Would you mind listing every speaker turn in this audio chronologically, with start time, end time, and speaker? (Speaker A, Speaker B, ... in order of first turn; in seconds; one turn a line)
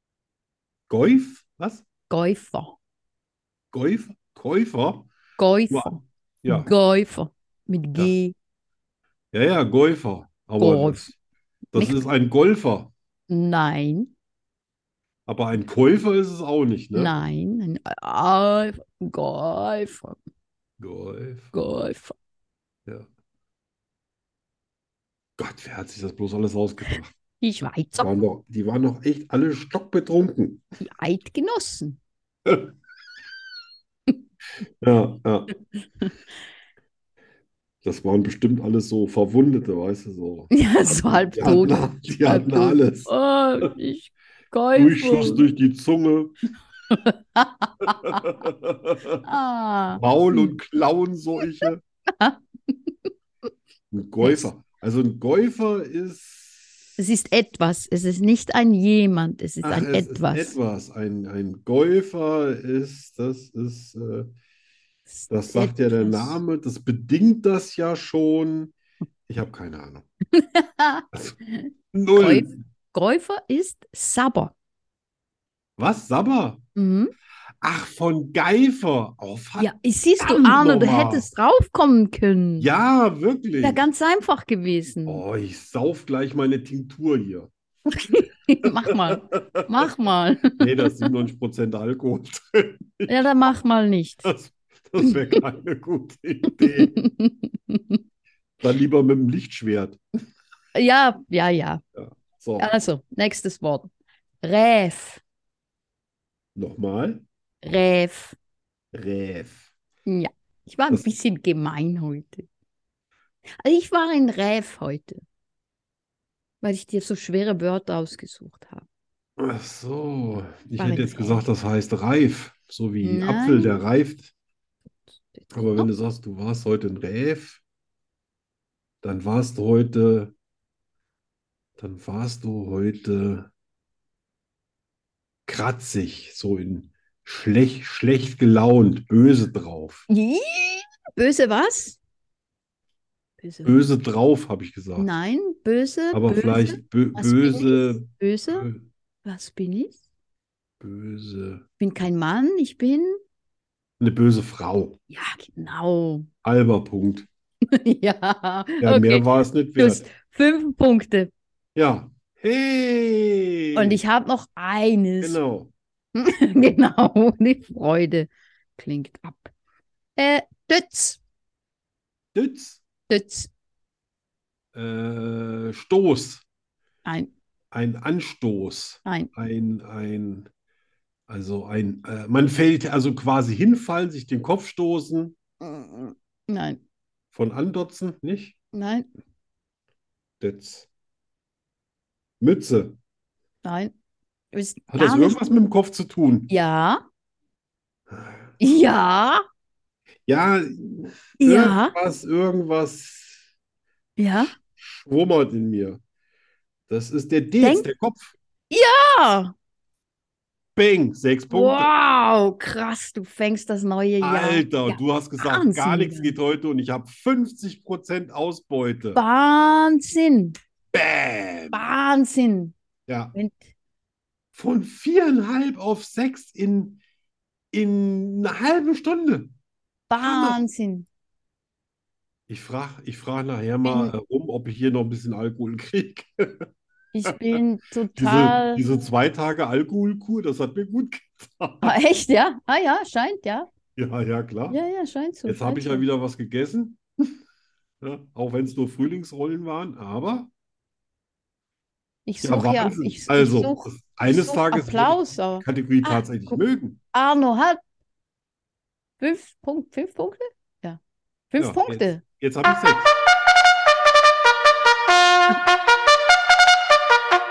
Speaker A: 0.9-1.9
Speaker B: 2.1-2.8
Speaker A: 3.7-5.1
Speaker B: 5.4-8.3
Speaker A: 5.7-6.7
Speaker A: 9.3-11.1
Speaker B: 10.6-11.1
Speaker A: 11.7-12.9
Speaker B: 11.7-12.0
Speaker B: 13.3-14.1
Speaker A: 15.3-17.1
Speaker B: 16.9-20.2
Speaker A: 20.8-21.6
Speaker B: 21.5-22.2
Speaker A: 25.4-27.1
Speaker B: 27.4-28.1
Speaker A: 28.0-30.6
Speaker B: 30.8-32.0
Speaker A: 32.5-32.7
Speaker A: 34.8-35.5
Speaker A: 37.8-43.1
Speaker B: 40.5-45.5
Speaker A: 44.8-46.3
Speaker B: 46.9-48.3
Speaker A: 47.8-49.2
Speaker B: 49.2-50.6
Speaker A: 50.0-51.8
Speaker B: 51.6-52.9
Speaker A: 53.9-56.9
Speaker B: 57.0-60.6
Speaker A: 59.6-64.3
Speaker B: 65.1-66.4
Speaker A: 65.3-68.7
Speaker A: 69.3-70.1
Speaker B: 70.4-74.5
Speaker A: 71.1-71.4
Speaker A: 71.9-72.6
Speaker A: 75.8-76.6
Speaker B: 76.8-77.1
Speaker A: 77.6-81.3
Speaker B: 79.6-82.7
Speaker A: 82.6-83.8
Speaker B: 83.6-85.2
Speaker A: 85.1-87.5
Speaker B: 88.1-90.9
Speaker A: 88.9-89.7
Speaker A: 90.6-93.3
Speaker B: 93.1-94.3
Speaker A: 94.2-97.0
Speaker B: 96.6-98.0
Speaker A: 98.6-100.0
Speaker B: 100.7-101.8
Speaker A: 102.0-102.7
Speaker B: 102.6-103.9
Speaker B: 104.4-105.2
Speaker A: 106.6-107.2
Speaker B: 107.6-108.4
Speaker A: 108.9-109.7
Speaker B: 110.1-112.5
Speaker B: 113.6-115.2
Speaker B: 116.6-118.9
Speaker A: 119.4-124.3
Speaker B: 120.8-121.5
Speaker B: 123.0-123.8
Speaker B: 125.3-125.9
Speaker A: 125.5-127.6
Speaker A: 129.0-130.3
Speaker A: 131.8-133.5
Speaker A: 135.5-140.1
Speaker B: 140.1-142.0
Speaker B: 143.4-143.9
Speaker A: 143.7-145.1
Speaker B: 145.0-148.7
Speaker A: 146.1-148.8
Speaker B: 149.2-150.0
Speaker A: 150.8-151.6
Speaker B: 151.8-153.2
Speaker A: 154.0-155.0
Speaker B: 155.1-156.3
Speaker A: 156.4-157.3
Speaker B: 157.7-161.3
Speaker A: 158.8-160.1
Speaker A: 161.8-164.0
Speaker B: 163.7-165.4
Speaker A: 165.2-165.7
Speaker B: 166.2-169.5
Speaker B: 170.2-171.2
Speaker A: 172.3-172.8
Speaker B: 173.1-173.5
Speaker A: 174.7-176.4
Speaker B: 177.1-177.3
Speaker A: 177.7-180.5
Speaker B: 179.1-179.3
Speaker A: 181.3-185.3
Speaker B: 185.6-186.8
Speaker A: 187.3-188.6
Speaker B: 188.7-189.1
Speaker A: 190.4-190.9
Speaker A: 192.4-193.0
Speaker B: 193.6-193.9
Speaker B: 194.5-195.4
Speaker A: 194.9-196.5
Speaker B: 196.5-197.0
Speaker A: 198.1-198.5
Speaker B: 198.6-199.4
Speaker A: 200.3-203.4
Speaker B: 201.4-201.9
Speaker B: 204.2-204.5
Speaker A: 204.4-206.0
Speaker A: 206.9-208.3
Speaker B: 207.6-207.9
Speaker B: 208.7-209.5
Speaker A: 210.8-211.9
Speaker B: 211.5-216.4
Speaker A: 214.2-219.2
Speaker B: 219.2-220.6
Speaker A: 220.9-221.8
Speaker B: 221.7-222.8
Speaker A: 223.1-223.3
Speaker B: 223.3-223.6
Speaker A: 224.6-227.0
Speaker A: 227.7-229.5
Speaker B: 230.1-231.1
Speaker A: 230.2-230.6
Speaker A: 232.5-236.7
Speaker B: 233.8-234.1
Speaker B: 237.1-238.8
Speaker A: 237.3-237.6
Speaker A: 238.2-241.9
Speaker B: 241.8-243.7
Speaker A: 244.0-244.8
Speaker B: 244.7-246.1
Speaker A: 245.5-247.0
Speaker A: 248.0-250.5
Speaker B: 252.3-256.6
Speaker A: 252.4-257.0
Speaker B: 257.1-257.8
Speaker B: 259.2-261.0
Speaker B: 261.5-262.2
Speaker A: 261.6-263.1